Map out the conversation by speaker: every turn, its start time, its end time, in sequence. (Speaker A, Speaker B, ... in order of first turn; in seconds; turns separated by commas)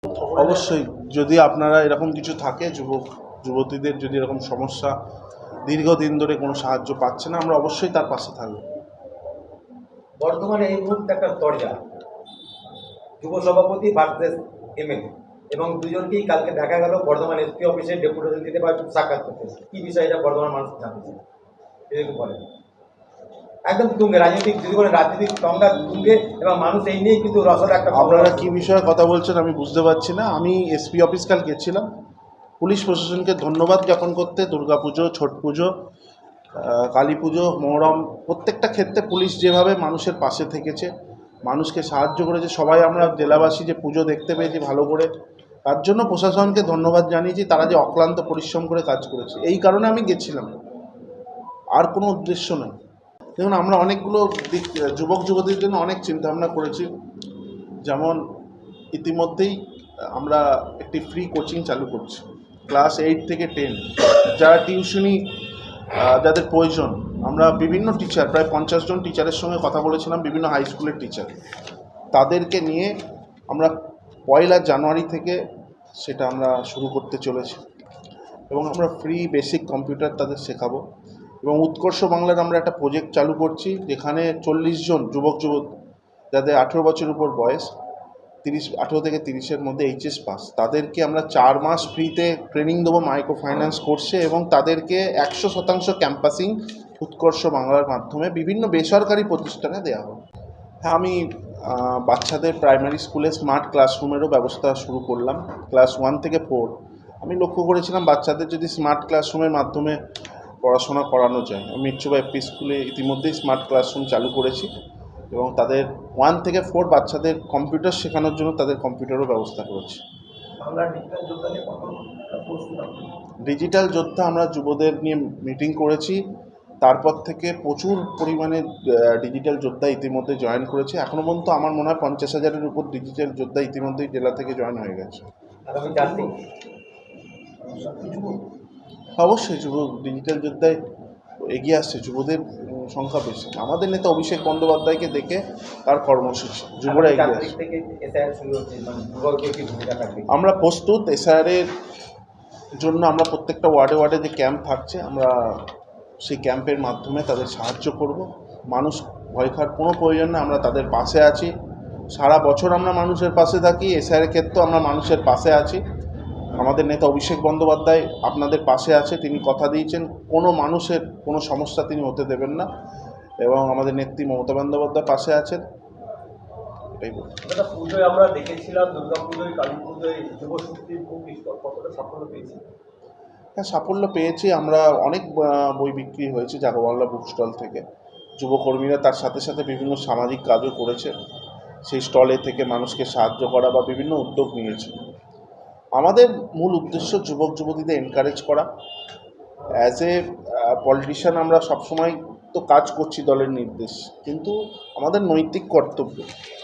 Speaker A: 0.3-5.0, Speaker A: 5.7-8.7, Speaker B: 10.2-11.8, Speaker B: 13.2-21.2, Speaker B: 21.9-22.4, Speaker B: 23.6-28.7, Speaker A: 27.9-31.9, Speaker A: 32.6-35.7, Speaker A: 36.5-40.9, Speaker A: 41.5-45.1, Speaker A: 45.7-50.5, Speaker A: 51.8-52.8, Speaker A: 53.4-56.9, Speaker A: 57.9-58.2, Speaker A: 58.9-59.6, Speaker A: 60.1-65.2, Speaker A: 66.0-71.3, Speaker A: 72.1-72.9, Speaker A: 73.5-73.8, Speaker A: 74.3-75.4, Speaker A: 76.0-77.6, Speaker A: 78.5-80.8, Speaker A: 81.4-85.8, Speaker A: 86.3-87.7, Speaker A: 88.4-100.2, Speaker A: 100.8-110.0, Speaker A: 110.6-114.7, Speaker A: 115.3-120.0, Speaker C: 120.6-123.1, Speaker A: 123.5-126.2, Speaker A: 126.8-135.3, Speaker B: 135.7-136.3, Speaker C: 135.9-136.3, Speaker C: 137.6-138.4, Speaker A: 139.2-140.8, Speaker A: 141.5-147.5, Speaker B: 146.8-150.3, Speaker A: 150.3-151.7, Speaker A: 152.8-155.6, Speaker A: 156.2-161.5, Speaker A: 162.2-165.8, Speaker A: 166.6-172.7, Speaker A: 173.4-175.6, Speaker A: 177.0-177.4, Speaker B: 177.5-182.6, Speaker A: 183.6-187.8, Speaker A: 188.4-191.1, Speaker A: 191.8-195.0, Speaker A: 196.0-198.7, Speaker A: 199.8-206.3